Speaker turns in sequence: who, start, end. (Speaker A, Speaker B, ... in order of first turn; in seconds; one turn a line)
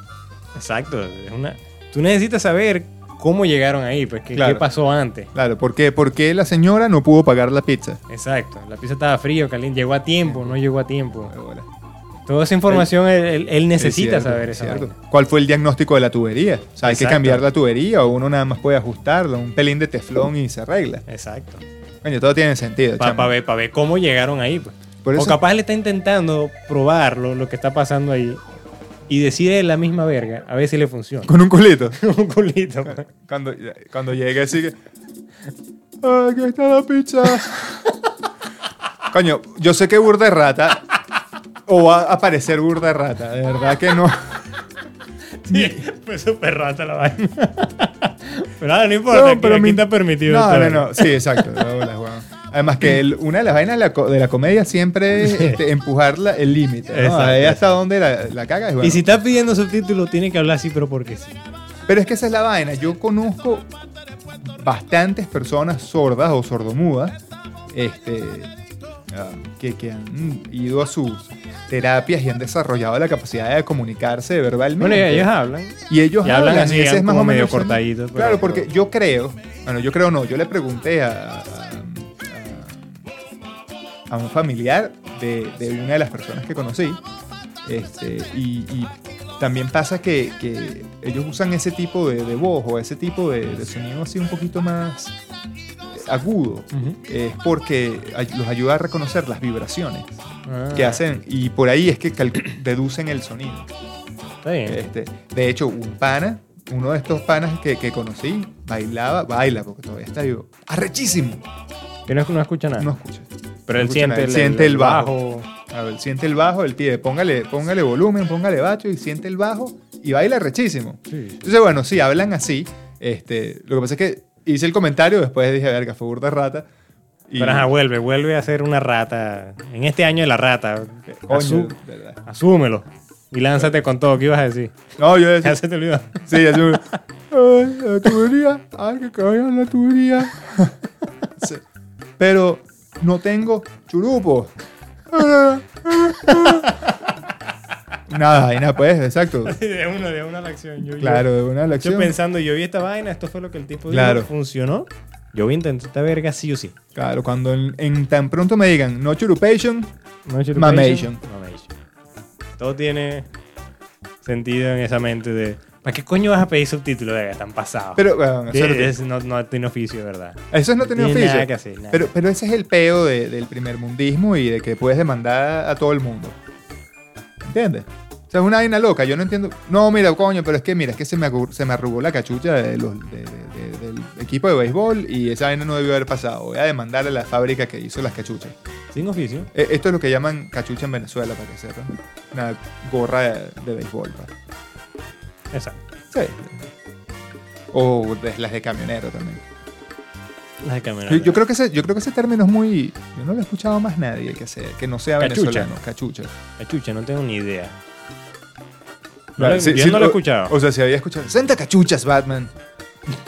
Speaker A: 0.5-5.3
Speaker B: 4.3-4.6
Speaker B: 5.3-8.0
Speaker A: 8.1-11.3
Speaker B: 10.2-10.6
Speaker B: 11.3-11.7
Speaker A: 12.3-14.9
Speaker B: 13.8-21.0
Speaker A: 16.8-17.4
Speaker A: 21.1-21.6
Speaker B: 22.0-23.3
Speaker A: 23.0-28.4
Speaker B: 25.0-25.4
Speaker A: 29.1-31.3
Speaker B: 31.2-32.0
Speaker A: 31.9-33.0
Speaker B: 32.9-34.8
Speaker B: 36.0-37.9
Speaker B: 39.1-40.9
Speaker B: 41.6-44.5
Speaker A: 45.4-51.7
Speaker B: 45.5-45.8
Speaker B: 49.1-59.0
Speaker A: 55.2-55.6
Speaker A: 56.9-57.7
Speaker A: 58.8-61.4
Speaker B: 61.9-63.7
Speaker B: 64.4-67.1
Speaker B: 67.7-68.5
Speaker B: 69.1-75.3
Speaker A: 74.8-78.7
Speaker B: 75.9-82.9
Speaker B: 84.1-87.0
Speaker B: 87.6-95.1
Speaker B: 95.9-100.1
Speaker A: 96.7-97.0
Speaker A: 100.5-101.0
Speaker B: 100.7-103.7
Speaker A: 104.4-104.8
Speaker B: 104.7-111.4
Speaker A: 112.1-112.9
Speaker B: 112.8-115.1
Speaker A: 113.7-115.5
Speaker B: 115.7-126.7
Speaker A: 121.1-121.4
Speaker B: 127.3-127.7
Speaker A: 127.4-134.7
Speaker B: 131.1-132.2
Speaker B: 135.0-135.6
Speaker A: 135.4-136.8
Speaker B: 136.2-140.7
Speaker B: 141.4-141.6
Speaker B: 142.2-144.5
Speaker B: 145.1-146.7
Speaker A: 146.3-147.1
Speaker B: 148.1-149.6
Speaker A: 149.4-156.7
Speaker B: 151.0-152.1
Speaker B: 153.9-154.3
Speaker B: 156.9-159.9
Speaker A: 160.2-161.7
Speaker B: 160.5-161.2
Speaker A: 162.6-163.3
Speaker A: 164.2-172.1
Speaker B: 167.9-168.9
Speaker B: 170.5-176.3
Speaker B: 177.4-188.6
Speaker A: 188.9-189.5
Speaker B: 189.5-194.3
Speaker A: 195.5-195.8
Speaker B: 196.1-196.7
Speaker B: 197.7-199.4
Speaker A: 200.6-201.4
Speaker B: 201.1-206.3
Speaker A: 205.2-205.7
Speaker A: 206.6-207.8
Speaker A: 209.4-210.5
Speaker B: 209.4-212.5